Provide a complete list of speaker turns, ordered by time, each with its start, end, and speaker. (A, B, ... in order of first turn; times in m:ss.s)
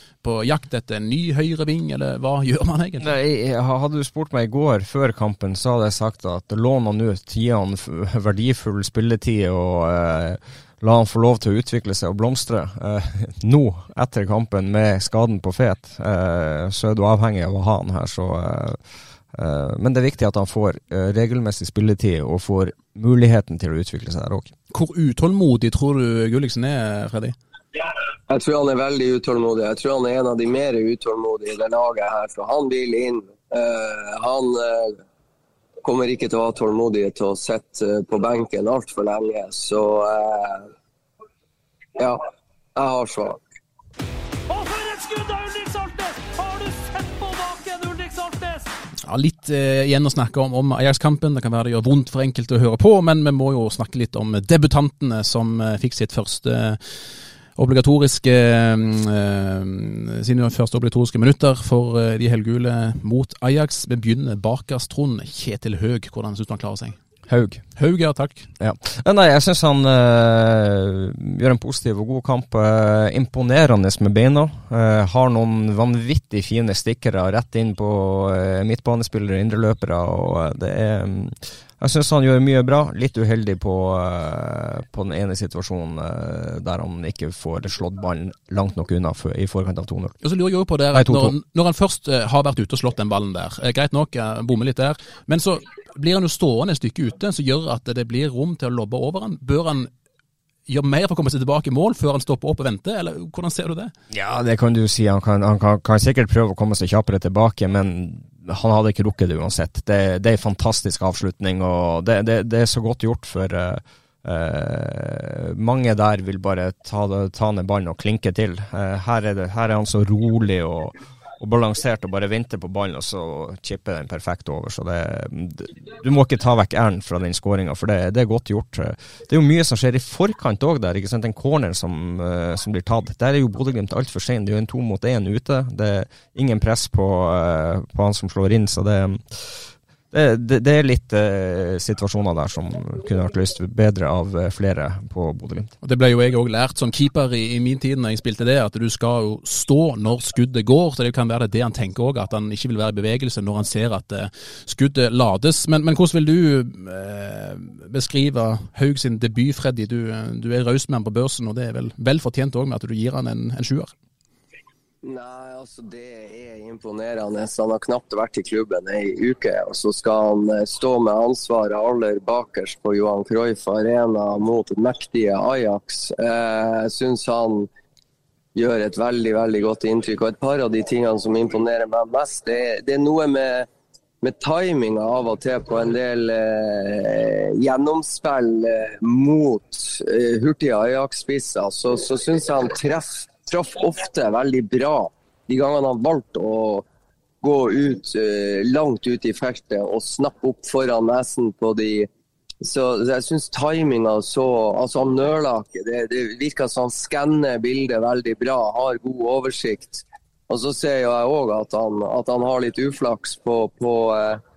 0:00.2-0:03.1 A
0:03.0-0:18.8 B
0:19.3-0:24.5 B
0:24.7-0:27.4 A
0:28.3-0:35.0 C
0:35.8-0:40.7 C
0:42.0-0:42.2 C
0:42.8-0:43.4 C
0:44.5-0:48.7 D
0:49.0-0:56.8 A
0:57.6-1:07.0 A
1:07.3-1:07.6 B
1:07.8-1:08.5 A
1:08.6-1:30.2 B
1:30.2-1:39.9 A
1:30.9-1:31.3 B
1:40.7-1:43.9 A
1:44.1-2:25.7 B
2:25.8-2:43.9 A
2:45.0-2:57.7 C
2:58.5-3:03.7 C
3:04.2-3:16.8 C
3:17.4-3:22.1 C
3:22.6-3:34.4 C